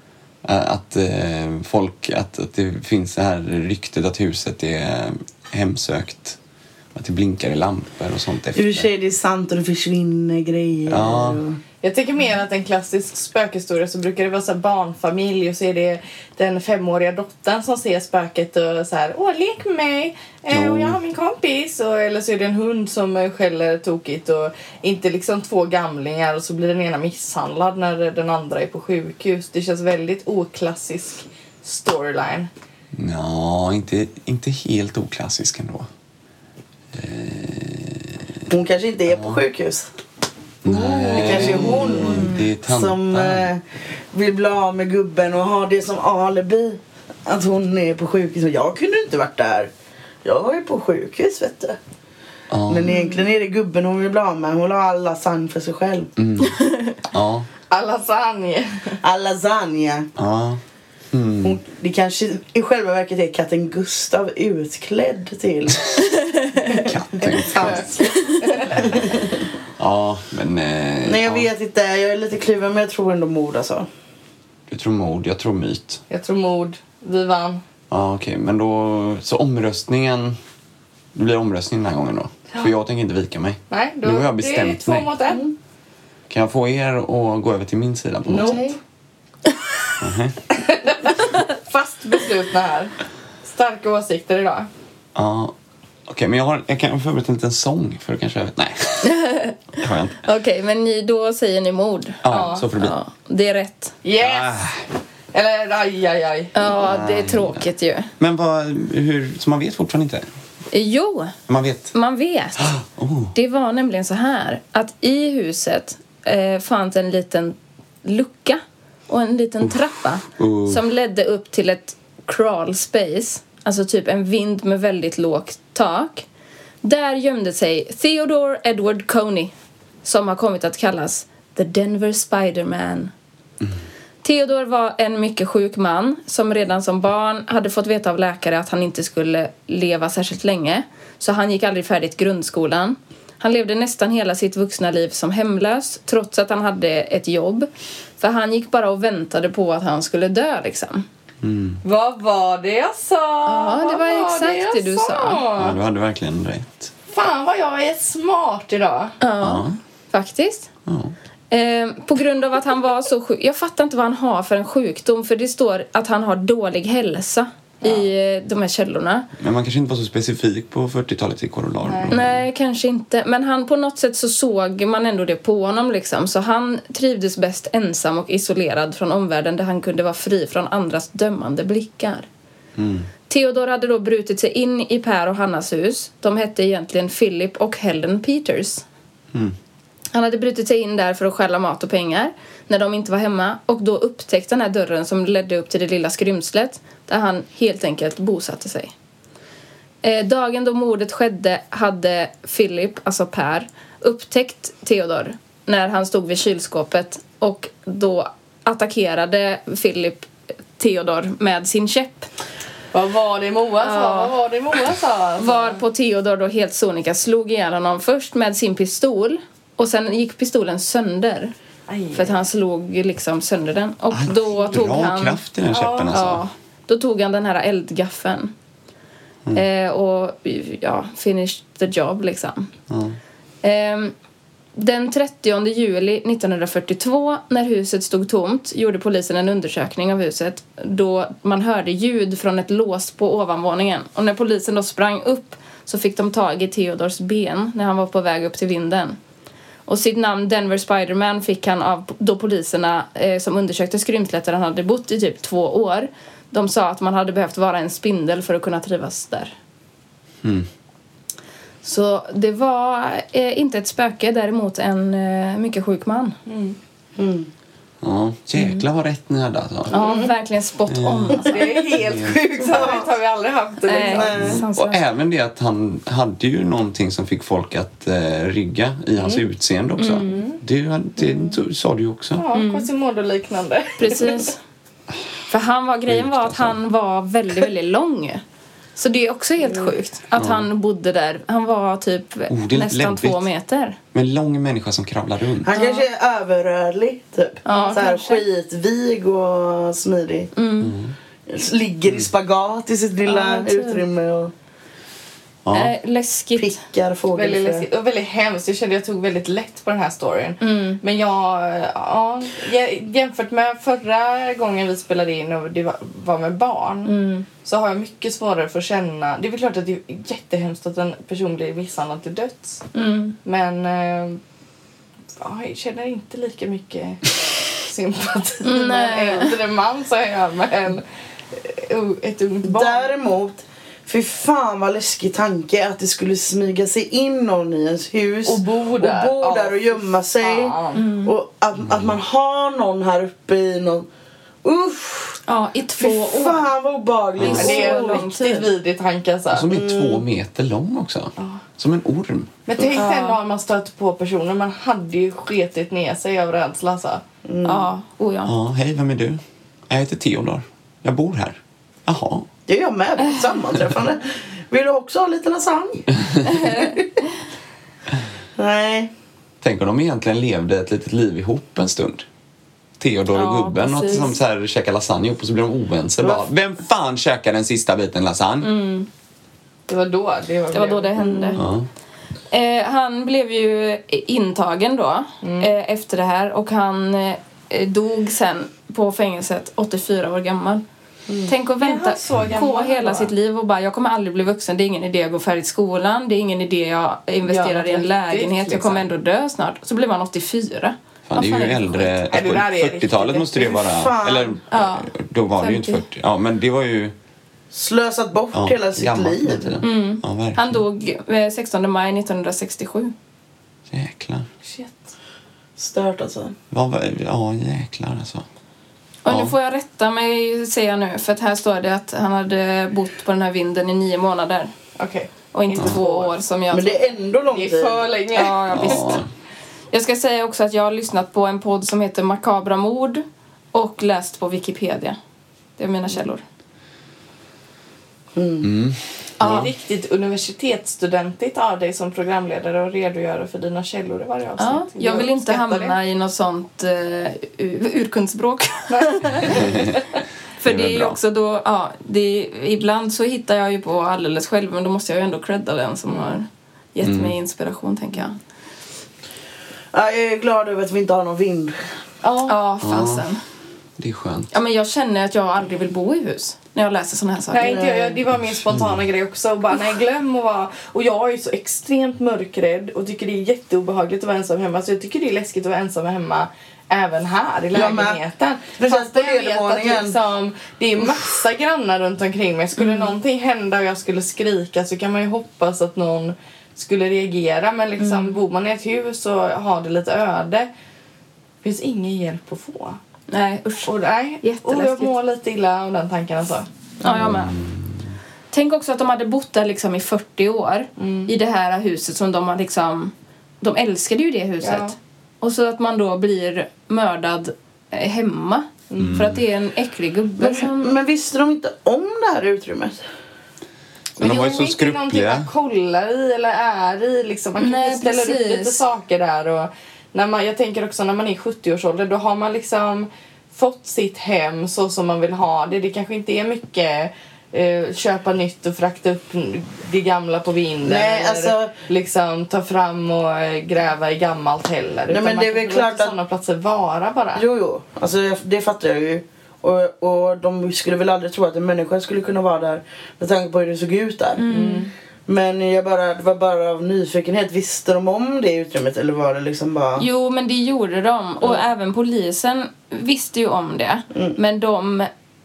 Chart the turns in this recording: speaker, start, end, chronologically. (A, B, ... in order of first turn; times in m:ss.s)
0:00.4-0:06.4 A
0:06.9-0:08.9 A
0:08.5-0:11.6 B
0:10.9-0:11.4 A
0:11.8-0:32.5 C
0:20.5-0:21.0 A
0:32.9-0:35.9 A
0:36.9-0:38.4 A
0:38.5-0:39.9 B
0:39.1-0:39.4 A
0:40.6-0:43.5 A
0:40.6-0:49.7 B
0:50.2-0:51.8 B
0:52.5-0:52.9 A
0:52.7-0:56.1 B
0:56.2-0:57.5 A
0:56.4-0:57.0 D
0:57.7-0:59.0 C
0:59.0-1:00.1 B
1:00.2-1:00.6 A
1:01.1-1:01.6 A
1:01.4-1:05.9 B
1:06.4-1:06.7 D
1:06.7-1:07.9 A
1:06.7-1:08.0 B
1:07.6-1:08.8 C
1:08.7-1:09.4 B
1:09.8-1:11.5 A
1:11.0-1:13.9 B
1:14.7-1:16.0 A
1:16.1-1:17.6 C
1:17.9-1:20.4 A
1:21.1-1:25.1 A
1:23.7-1:25.4 C
1:26.3-1:28.6 A
1:28.3-1:28.7 C
1:30.0-1:30.4 A
1:30.5-1:34.7 C
1:35.1-1:35.5 A
1:36.1-1:40.2 A
1:39.0-1:39.6 D
1:40.2-1:44.0 D
1:42.2-1:43.0 A
1:42.3-1:42.6 C
1:44.0-1:44.6 C
1:44.2-1:44.8 A
1:45.3-1:46.6 C
1:46.5-1:48.1 D
1:46.8-1:47.6 A
1:48.2-1:50.2 A
1:50.7-1:51.3 D
1:51.5-1:51.9 A
1:51.9-1:52.7 D
1:52.6-1:53.3 A
1:53.3-2:06.2 D
2:00.4-2:00.8 A
2:06.8-2:09.5 D
2:10.0-2:13.1 D
2:14.2-2:27.7 D
2:28.2-2:31.0 D
2:31.4-2:31.8 A
2:31.8-2:35.8 C
2:33.4-2:35.4 D
2:35.6-2:36.9 A
2:37.1-2:39.2 C
2:39.2-2:40.7 D
2:39.4-2:39.8 A
2:40.8-2:41.1 A
2:41.5-2:49.3 D
2:47.8-2:48.1 C
2:49.4-2:52.4 A
2:51.8-2:52.1 C
2:52.1-3:02.3 D
3:02.8-3:03.1 A
3:03.3-3:08.8 D
3:10.1-3:18.9 D
3:20.0-3:32.3 D
3:32.9-3:35.8 C
3:33.8-3:34.4 D
3:35.4-3:41.5 D
3:41.9-3:42.4 C
3:42.1-3:45.4 D
3:44.1-3:46.4 A
3:45.7-3:46.1 C
3:46.1-3:48.5 D
3:49.5-3:52.7 D
3:52.9-3:53.2 A
3:53.6-3:54.1 D
3:54.8-4:09.2 D
4:09.9-4:19.5 D
4:21.8-4:26.3 D
4:26.5-4:26.8 C
4:27.2-4:27.5 B
4:28.0-4:30.1 A
4:29.9-4:31.6 D
4:30.9-4:31.4 A
4:31.4-4:34.6 C
4:32.0-4:32.4 A
4:32.6-4:33.1 B
4:33.9-4:35.0 D
4:34.2-4:34.6 B
4:34.3-4:42.4 A
4:39.2-4:39.4 C
4:40.0-4:40.4 D
4:40.3-4:40.6 C
4:42.4-4:44.5 C
4:42.5-4:42.9 D
4:44.0-4:44.6 D
4:45.5-4:48.4 D
4:46.1-4:46.8 A
4:49.0-4:54.0 D
4:50.4-4:50.7 A
4:52.5-4:53.5 A
4:54.1-4:55.7 A
4:55.6-5:00.5 B
4:55.7-4:56.0 D
4:57.6-4:58.4 D
4:57.7-4:58.0 C
5:00.6-5:00.9 D
5:00.8-5:01.1 A
5:01.5-5:04.5 B
5:03.2-5:04.0 D
5:05.6-5:05.9 A
5:05.7-5:06.8 D
5:06.6-5:07.9 B
5:07.3-5:22.8 C
5:10.6-5:11.0 D
5:17.0-5:17.4 D
5:22.9-5:23.4 D
5:23.4-5:24.4 C
5:25.4-5:33.1 C
5:28.6-5:29.5 D
5:32.6-5:44.1 B
5:38.4-5:41.0 C
5:40.9-5:41.3 D
5:44.6-5:45.4 B
5:45.4-5:46.7 D
5:46.0-5:48.3 B
5:47.4-5:47.7 A
5:47.4-5:48.7 D
5:47.5-5:49.7 C
5:49.5-5:52.5 A
5:49.7-5:50.2 B
5:51.4-5:51.6 C
5:52.7-5:57.2 C
5:52.9-5:53.4 D
5:57.5-5:57.9 B
5:57.6-5:58.5 D
5:58.4-6:02.5 A
6:02.7-6:06.1 B
6:03.2-6:03.6 D
6:06.2-6:06.5 A
6:06.4-6:07.0 D
6:06.6-6:07.0 B
6:08.6-6:09.1 B
6:09.6-6:12.2 A
6:13.0-6:18.8 A
6:13.3-6:14.3 D
6:18.6-6:19.1 D
6:19.9-6:21.1 C
6:20.7-6:21.6 D
6:21.2-6:21.6 B
6:21.6-6:21.9 A
6:22.5-6:30.8 D
6:25.4-6:25.7 C
6:31.4-6:42.2 D
6:31.8-6:33.3 C
6:37.4-6:39.1 C
6:41.3-6:47.1 A
6:42.3-6:43.7 C
6:43.7-6:44.6 B
6:44.7-6:46.0 D
6:47.7-6:49.8 B
6:48.5-6:50.8 A
6:49.8-6:53.1 D
6:53.9-6:54.4 A
6:54.6-6:55.1 C
6:55.8-6:56.5 B
6:56.7-6:58.4 A
6:59.2-7:04.7 D
6:59.3-6:59.5 A
7:05.0-7:06.4 C
7:05.5-7:07.1 D
7:06.7-7:08.1 B
7:07.5-7:09.1 C
7:08.4-7:09.2 D
7:08.7-7:09.3 A
7:09.9-7:15.2 D
7:15.8-7:16.4 D
7:18.3-7:18.7 B
7:18.6-7:19.7 A
7:19.4-7:26.0 C
7:24.6-7:29.8 D
7:28.9-7:29.8 C
7:29.5-7:30.0 A
7:30.6-7:38.4 D
7:30.6-7:31.2 A
7:36.1-7:36.4 C
7:37.0-7:37.3 A
7:39.9-7:41.9 B
7:42.2-7:42.6 C
7:42.4-7:43.4 D
7:42.8-7:43.3 A
7:44.0-7:44.5 A
7:44.5-7:47.8 D
7:47.5-8:10.7 C
7:47.6-7:48.2 B
7:48.7-7:49.0 A
7:57.7-7:58.2 B
7:58.8-8:00.2 B
8:02.8-8:03.1 D
8:08.0-8:08.4 D
8:11.6-8:13.0 C
8:13.3-8:13.9 D
8:13.8-8:16.7 C
8:14.4-8:15.1 D
8:17.0-8:17.3 B
8:17.0-8:17.6 D
8:17.2-8:18.1 A
8:18.5-8:30.9 D
8:21.0-8:21.3 C
8:24.6-8:25.0 C
8:28.9-8:29.2 C
8:29.0-8:29.4 A
8:30.4-8:33.0 B
8:34.2-8:57.4 C
8:34.2-8:35.5 A
8:37.6-8:38.8 D
8:50.8-8:51.7 B
8:55.1-8:56.2 B
8:57.3-9:04.4 B
9:04.4-9:04.9 D
9:04.5-9:04.9 C
9:05.3-9:10.1 B
9:10.0-9:15.1 D
9:14.1-9:14.4 B